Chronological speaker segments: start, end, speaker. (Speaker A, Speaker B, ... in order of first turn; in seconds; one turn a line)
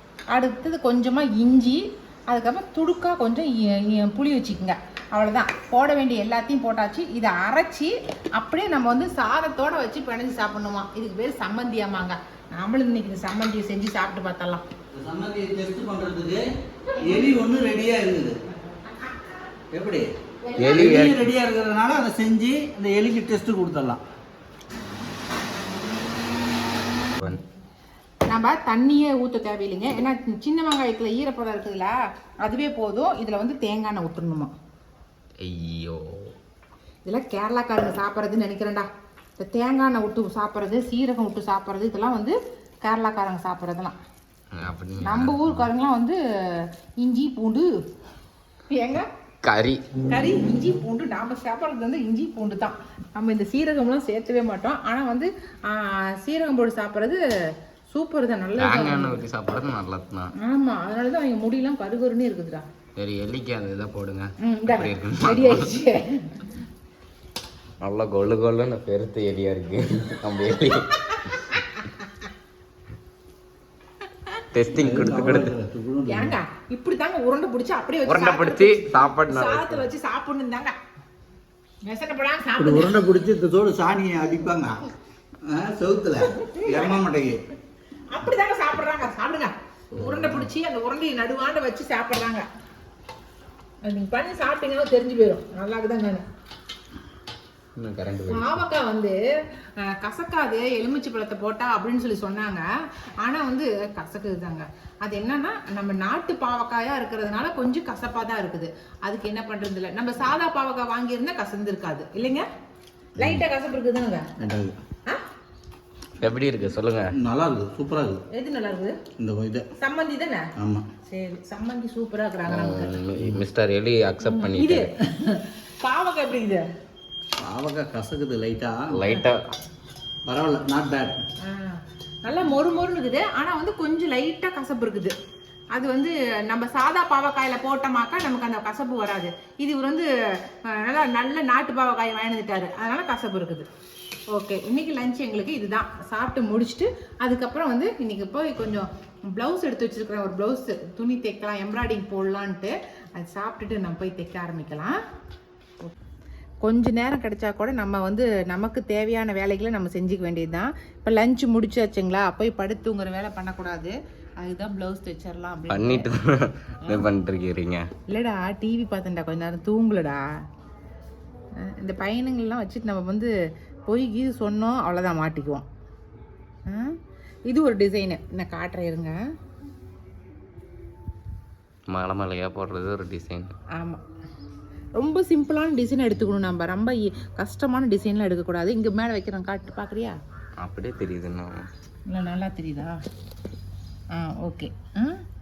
Speaker A: 0.3-14.6
Speaker B: 14.9-16.4
Speaker A: 16.9-17.3
Speaker B: 17.0-18.4
Speaker B: 19.7-20.1
Speaker A: 20.4-21.0
Speaker C: 20.6-21.2
Speaker B: 20.6-24.0
Speaker A: 28.3-34.5
Speaker C: 35.4-36.3
Speaker A: 37.0-44.0
Speaker C: 44.6-45.7
Speaker A: 45.0-47.7
Speaker A: 48.7-49.0
Speaker C: 49.4-49.8
Speaker A: 50.1-57.2
Speaker A: 57.9-59.2
Speaker C: 58.6-60.3
Speaker A: 60.4-62.6
Speaker C: 63.0-65.7
Speaker A: 64.4-66.5
Speaker C: 67.8-71.4
Speaker A: 71.0-72.2
Speaker C: 74.5-75.5
Speaker B: 74.7-76.3
Speaker A: 76.1-80.8
Speaker C: 78.0-79.8
Speaker A: 81.8-83.0
Speaker B: 82.6-84.8
Speaker B: 85.5-87.4
Speaker A: 86.4-87.0
Speaker A: 88.1-92.4
Speaker C: 89.9-90.3
Speaker A: 93.8-96.2
Speaker C: 97.8-98.6
Speaker A: 98.3-99.1
Speaker A: 99.8-102.6
Speaker A: 103.2-112.5
Speaker A: 113.2-114.3
Speaker B: 114.4-114.8
Speaker C: 116.2-117.1
Speaker B: 117.1-118.2
Speaker A: 118.3-119.0
Speaker B: 119.2-119.6
Speaker A: 119.8-120.5
Speaker B: 120.6-120.9
Speaker A: 121.1-122.9
Speaker C: 122.5-124.9
Speaker A: 124.2-126.7
Speaker B: 127.4-128.9
Speaker C: 128.9-129.5
Speaker B: 130.2-131.2
Speaker A: 131.4-135.1
Speaker A: 135.7-143.7
Speaker A: 144.3-155.0
Speaker A: 156.6-166.1
Speaker C: 165.7-167.8
Speaker A: 168.1-170.2
Speaker A: 171.6-173.3
Speaker A: 173.9-175.6
Speaker A: 176.7-179.1
Speaker C: 181.9-183.5
Speaker A: 183.8-184.0
Speaker A: 185.0-190.2
Speaker C: 190.6-191.7
Speaker A: 192.1-193.0
Speaker A: 194.1-195.2